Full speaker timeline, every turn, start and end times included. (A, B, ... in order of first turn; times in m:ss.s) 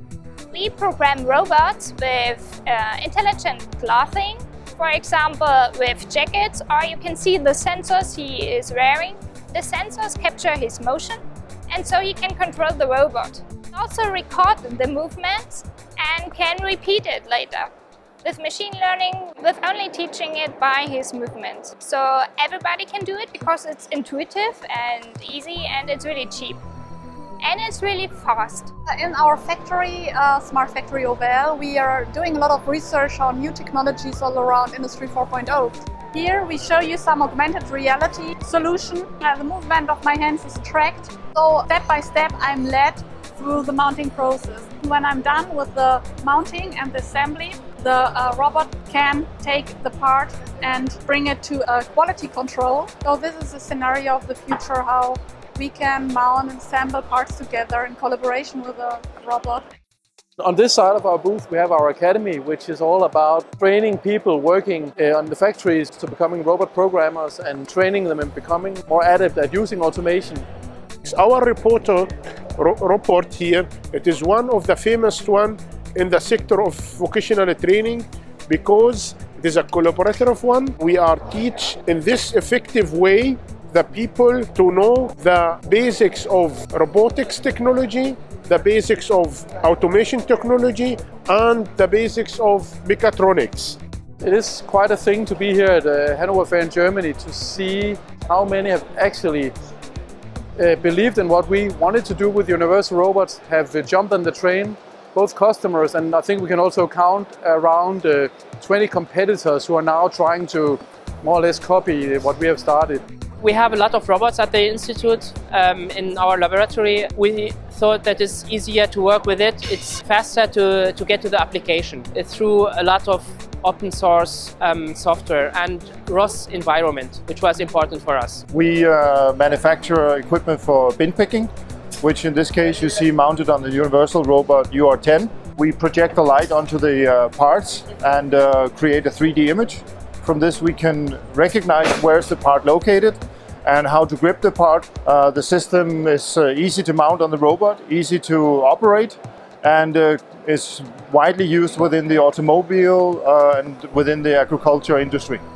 0:00.5-0:17.7 A
0:18.2-0:26.6 A
0:27.4-0:28.7 A
0:28.9-0:59.6 B
1:00.4-1:10.5 C
1:11.0-1:33.8 D
1:34.2-1:39.5 C
1:40.6-1:53.0 C
1:53.4-2:08.4 E
2:08.5-2:35.4 F